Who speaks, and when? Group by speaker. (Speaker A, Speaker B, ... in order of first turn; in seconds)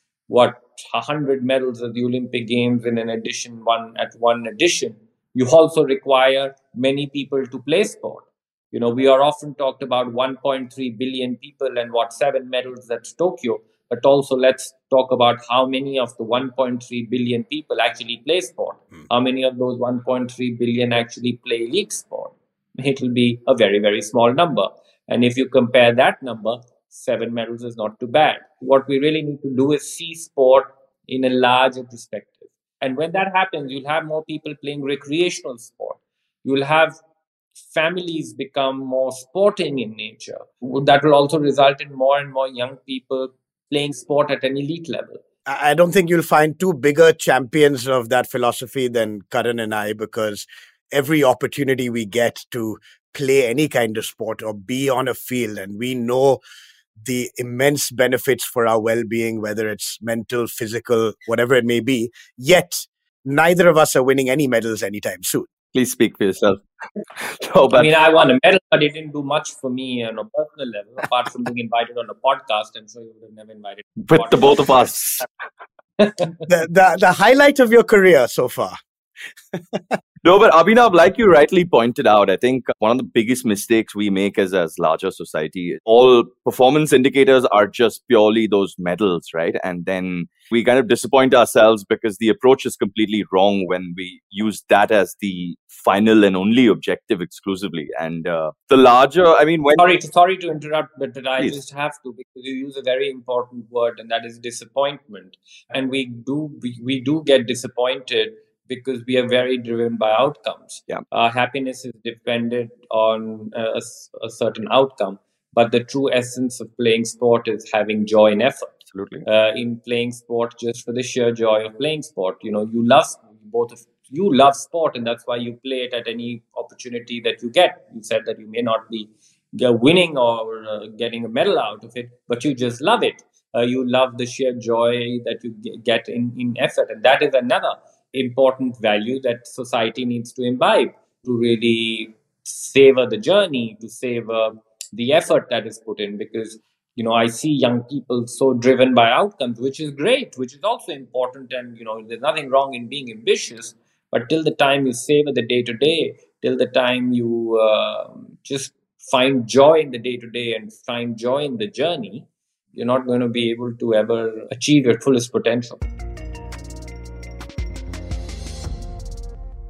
Speaker A: 0.3-37.0, 37.6-45.2, 67.7-74.9, 76.0-76.3, 99.8-165.8
Speaker B: 45.5-56.4, 57.0-65.5, 76.5-78.8, 79.7-80.0
Speaker C: 65.7-66.6, 67.2-67.9, 74.1-75.2, 80.2-99.8, 118.9-119.2